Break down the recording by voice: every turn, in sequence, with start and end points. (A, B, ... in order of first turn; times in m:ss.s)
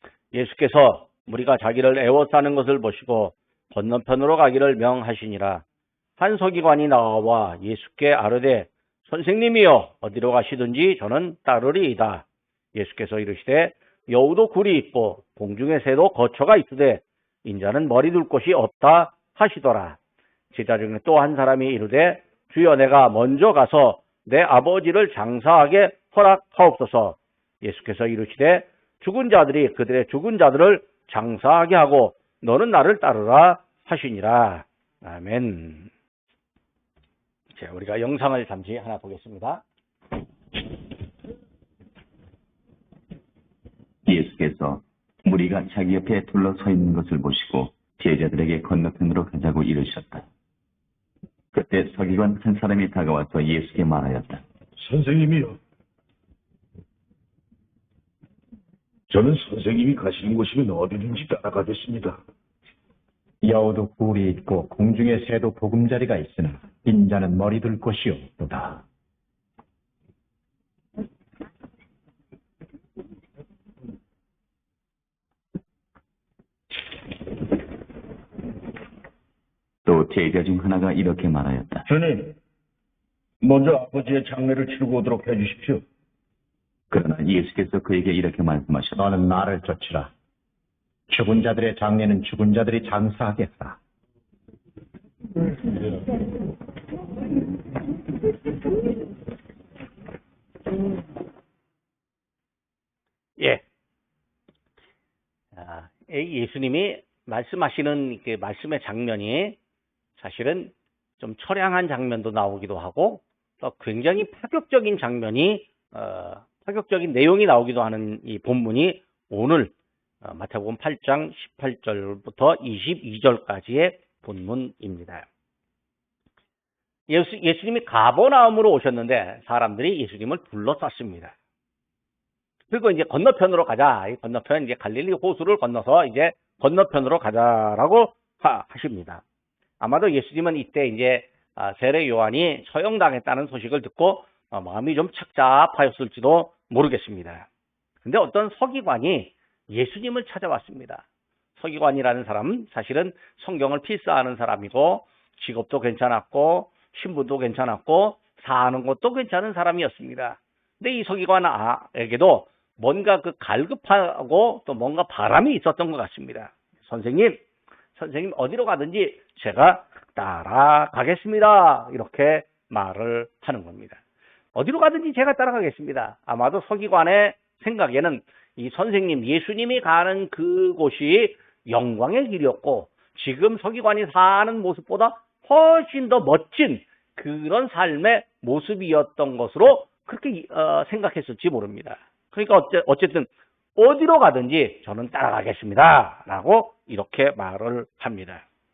0:00.3-0:05.6 A
0:06.2-0:20.0 A
0:20.5-0:35.9 A
0:37.5-0:39.6 A
0:44.0-0:50.2 B
0:51.5-0:54.4 B
0:54.8-0:55.6 C
0:59.1-1:02.2 C
1:03.4-1:08.8 D
1:19.8-1:21.8 B
1:21.9-1:22.4 C
1:23.4-1:25.8 C
1:26.9-1:29.0 B
1:29.0-1:30.1 D
1:31.1-1:33.8 D
1:45.5-1:49.6 A
1:50.2-2:05.2 A
2:07.1-2:11.3 A
2:12.7-2:19.2 A
2:19.8-2:27.4 A
2:28.0-2:31.0 A
2:31.6-2:47.4 A
2:48.0-2:54.0 A
2:54.5-3:18.4 A